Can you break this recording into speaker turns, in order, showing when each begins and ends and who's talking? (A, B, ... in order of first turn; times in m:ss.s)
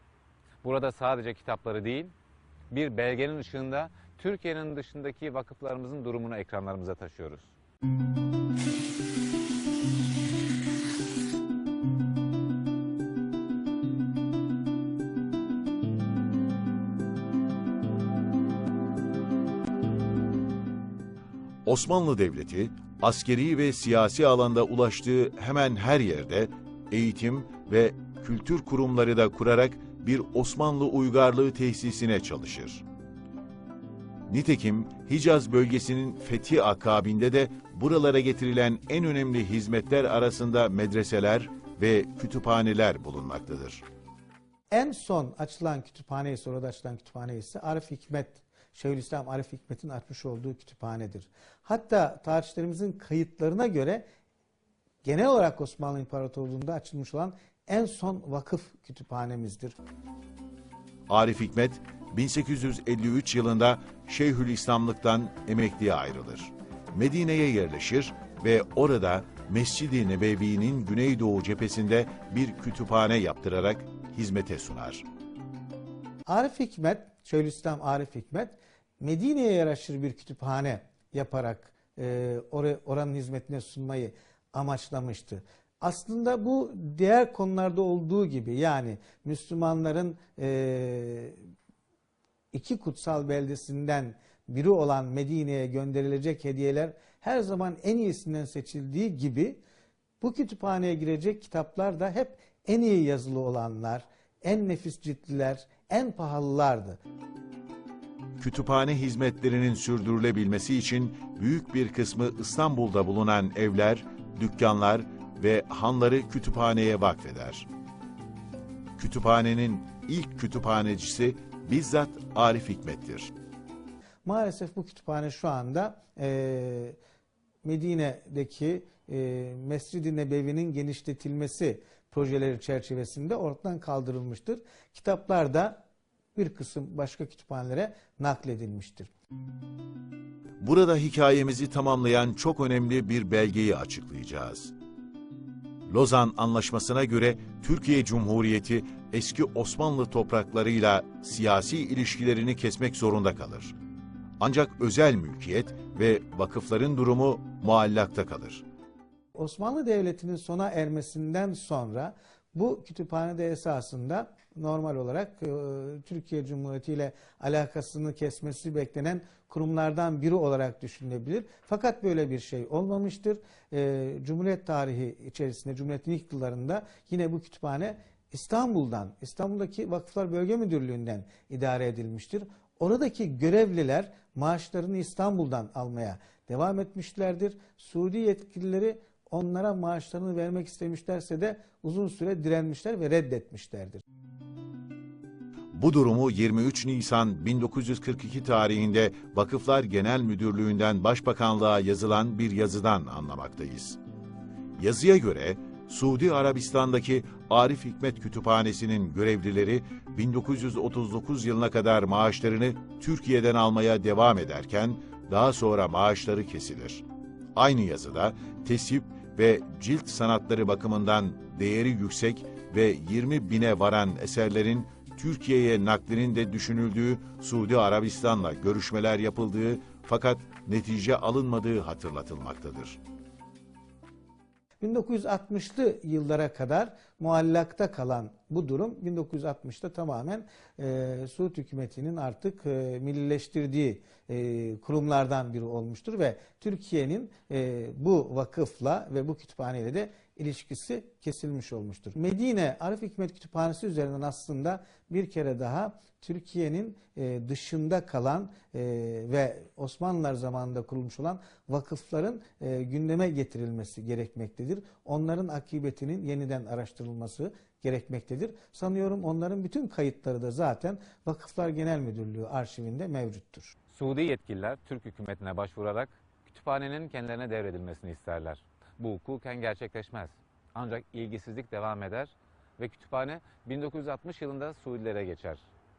0:00.6-0:02.1 A
0:02.7-0:07.5 A
0:21.6-0:32.8 B
0:34.3-0:43.8 B
0:44.7-0:54.0 C
0:55.0-0:59.8 C
1:01.1-1:15.0 B
1:16.3-1:31.4 C
1:32.5-1:39.6 C
1:40.2-1:47.0 C
1:48.4-1:57.7 B
1:59.0-2:03.3 B
2:04.2-2:07.0 C
2:07.6-2:15.8 C
2:16.4-2:19.1 C
2:20.6-2:24.7 B
2:25.9-2:33.8 B
2:34.4-2:38.6 B
2:39.4-3:14.0 C
3:15.7-3:24.0 B
3:24.8-3:37.0 B
3:37.6-3:53.0 B
3:54.8-4:33.7 C
4:33.9-4:45.6 A